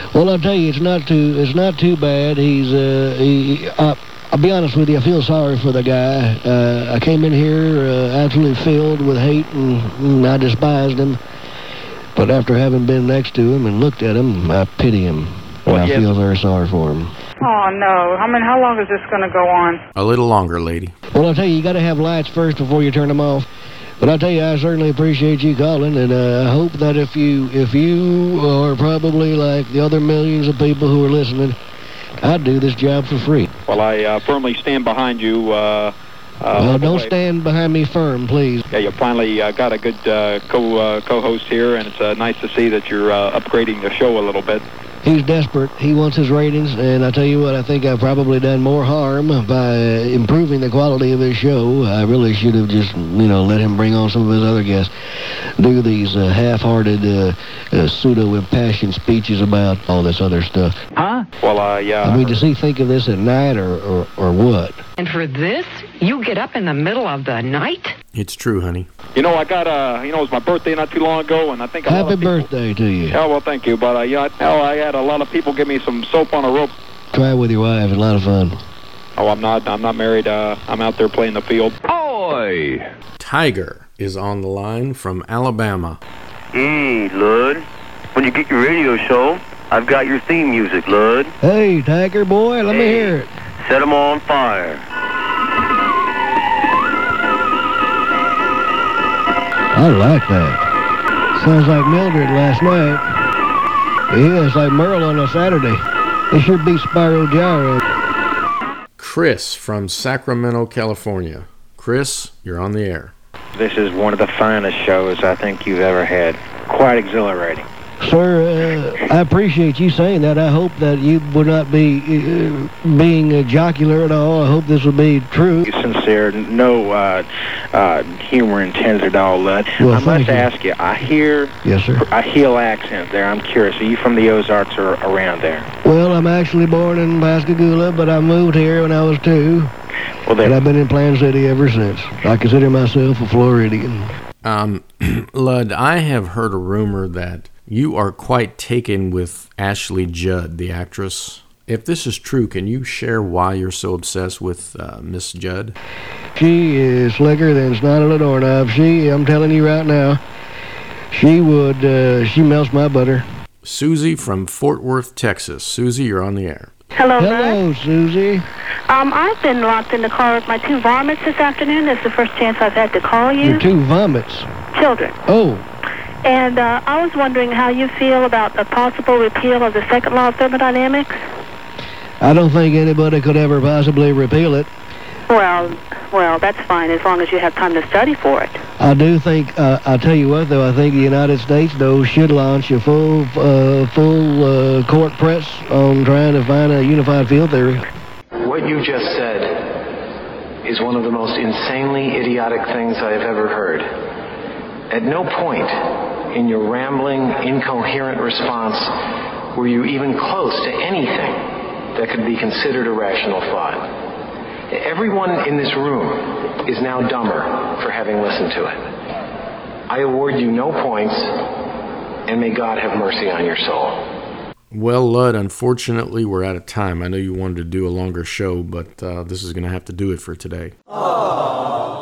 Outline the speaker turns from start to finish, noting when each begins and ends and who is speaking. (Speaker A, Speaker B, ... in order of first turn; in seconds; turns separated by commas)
Speaker A: 0.1-11.2, Speaker A: 12.2-17.1, Speaker B: 15.7-16.1, Speaker C: 17.4-19.8, Speaker D: 19.9-20.9, Speaker A: 21.1-23.5, Speaker A: 24.0-31.6, Speaker A: 32.2-33.5, Speaker B: 33.6-37.1, Speaker A: 36.5-38.6, Speaker B: 38.7-44.6, Speaker A: 45.0-54.9, Speaker A: 55.4-60.8, Speaker B: 61.4-62.4, Speaker A: 62.0-64.8, Speaker E: 65.0-67.9, Speaker D: 68.1-68.9, Speaker B: 69.2-72.5, Speaker A: 71.9-73.2, Speaker B: 73.1-76.7, Speaker A: 77.1-78.6, Speaker B: 79.2-81.8, Speaker F: 81.9-82.8, Speaker D: 83.2-86.0, Speaker F: 86.5-91.3, Speaker A: 91.4-93.3, Speaker F: 92.7-94.8, Speaker A: 99.7-100.7, Speaker A: 101.3-103.1, Speaker A: 104.1-107.8, Speaker D: 109.0-113.1, Speaker G: 113.5-117.7, Speaker A: 118.0-125.7, Speaker G: 125.7-135.7, Speaker A: 129.8-130.5, Speaker A: 131.6-132.1, Speaker A: 135.8-139.7, Speaker G: 140.3-140.6, Speaker A: 140.4-144.1, Speaker D: 144.4-155.8, Speaker A: 156.3-160.2, Speaker A: 161.1-163.2, Speaker D: 163.6-166.7, Speaker H: 166.9-167.6, Speaker A: 167.2-168.5, Speaker H: 168.9-173.7, Speaker A: 173.4-174.5, Speaker H: 174.8-175.2, Speaker A: 175.3-175.7, Speaker H: 176.2-181.2, Speaker A: 182.2-184.7, Speaker H: 185.3-188.6, Speaker A: 188.8-197.8, Speaker I: 198.4-199.9, Speaker I: 200.6-204.1, Speaker I: 204.9-208.9, Speaker I: 209.5-213.9, Speaker I: 214.7-218.9, Speaker I: 219.9-221.6, Speaker I: 222.3-224.1, Speaker D: 224.7-230.8